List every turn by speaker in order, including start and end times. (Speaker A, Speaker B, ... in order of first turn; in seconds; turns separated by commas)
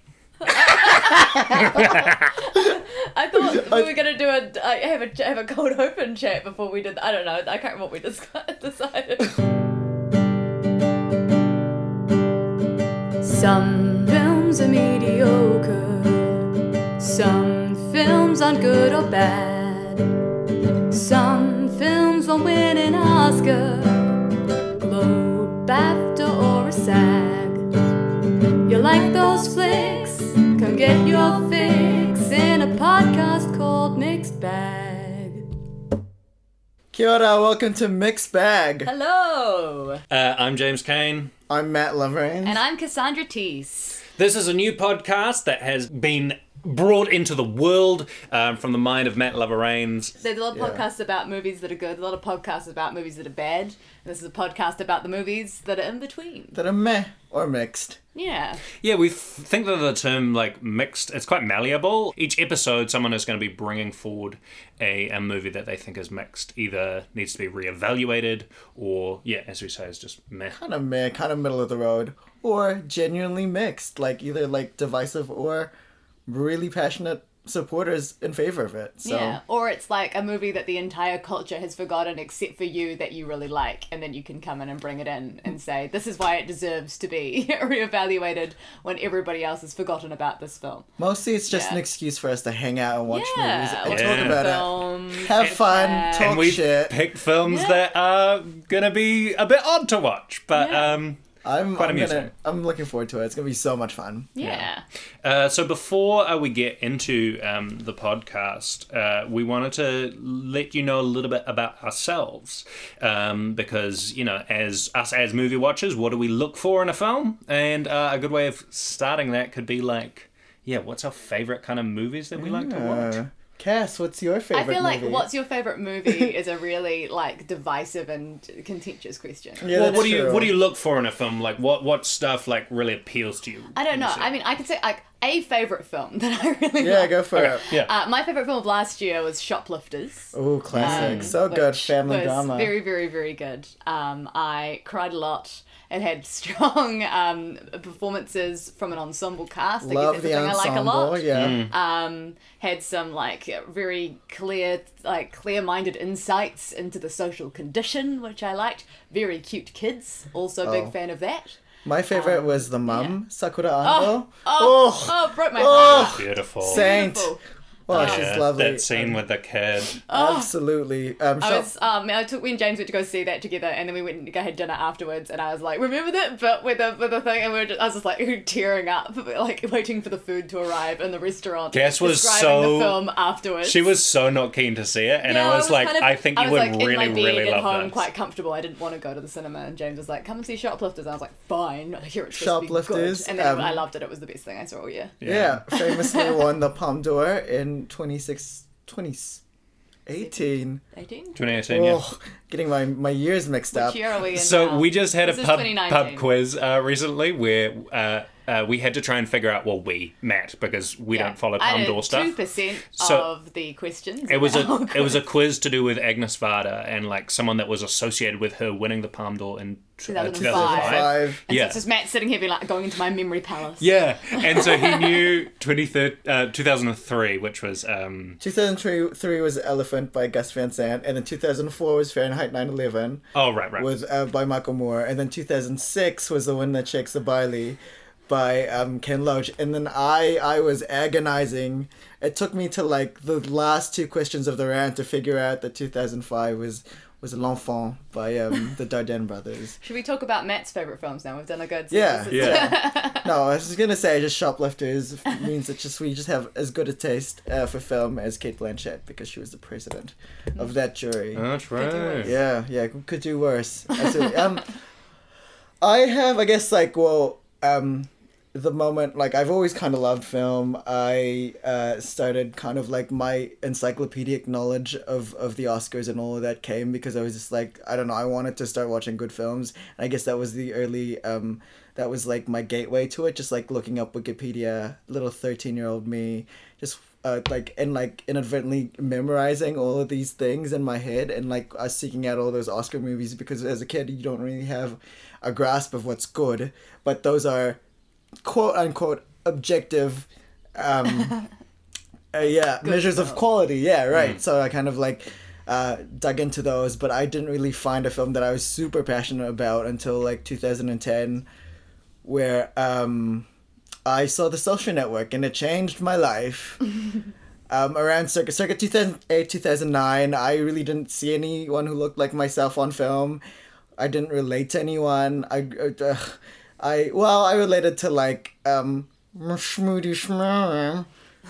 Speaker A: 0.4-9.4, Speaker B: 1.2-2.3, Speaker C: 3.5-3.9, Speaker A: 13.2-20.1, Speaker A: 20.9-27.7, Speaker A: 28.6-35.5, Speaker C: 36.9-38.9, Speaker A: 38.8-40.0, Speaker B: 40.1-41.3, Speaker C: 41.5-42.6, Speaker A: 42.4-44.0, Speaker B: 44.2-50.1, Speaker A: 50.2-56.6, Speaker C: 50.5-50.8, Speaker C: 56.5-58.0, Speaker A: 58.1-58.6, Speaker B: 58.8-70.6, Speaker C: 70.5-75.7, Speaker C: 76.3-79.4, Speaker A: 79.0-90.9, Speaker C: 91.0-96.9, Speaker A: 91.5-91.8, Speaker A: 93.1-96.4, Speaker B: 93.9-94.5, Speaker B: 96.1-101.2, Speaker A: 97.4-97.8, Speaker A: 100.5-101.0, Speaker C: 101.4-104.3, Speaker B: 101.8-102.3, Speaker A: 104.3-104.8, Speaker B: 104.4-104.7, Speaker B: 105.2-123.2, Speaker C: 122.3-125.3, Speaker A: 124.5-130.0, Speaker C: 126.0-126.3, Speaker C: 129.6-130.5, Speaker B: 129.7-134.3, Speaker A: 133.7-161.6, Speaker C: 136.8-137.6, Speaker B: 137.3-137.9, Speaker C: 140.3-142.7, Speaker B: 140.7-141.3, Speaker C: 149.8-151.6, Speaker B: 151.3-151.7, Speaker C: 160.6-160.9, Speaker C: 161.8-167.3, Speaker A: 162.1-163.2, Speaker A: 163.8-168.3, Speaker B: 165.7-166.8, Speaker C: 167.9-169.2, Speaker B: 167.9-170.0, Speaker A: 170.1-170.5, Speaker C: 170.1-171.7, Speaker A: 171.4-183.9, Speaker B: 181.7-183.0, Speaker B: 183.6-188.0, Speaker A: 185.2-195.2, Speaker C: 192.3-193.8, Speaker B: 195.2-195.6, Speaker C: 195.2-199.4, Speaker A: 195.7-196.5, Speaker C: 200.1-200.8, Speaker A: 200.2-201.6, Speaker B: 201.3-202.0, Speaker C: 201.7-204.0, Speaker A: 203.7-206.3, Speaker B: 204.3-212.3, Speaker A: 211.1-215.2, Speaker B: 212.9-213.3, Speaker B: 214.3-221.8, Speaker A: 220.1-225.4, Speaker C: 220.3-221.4, Speaker B: 223.8-228.4, Speaker C: 228.4-233.2, Speaker B: 233.3-233.9, Speaker C: 233.8-249.8, Speaker A: 249.8-253.3, Speaker C: 251.9-261.4, Speaker B: 252.3-252.7, Speaker B: 261.3-262.4, Speaker A: 261.7-262.4, Speaker C: 262.2-264.7, Speaker C: 265.8-297.8, Speaker C: 298.4-301.4, Speaker C: 302.3-311.4, Speaker A: 302.8-303.4, Speaker B: 304.1-304.4, Speaker C: 312.2-313.4, Speaker C: 314.0-316.8, Speaker C: 317.7-323.4, Speaker C: 324.0-331.1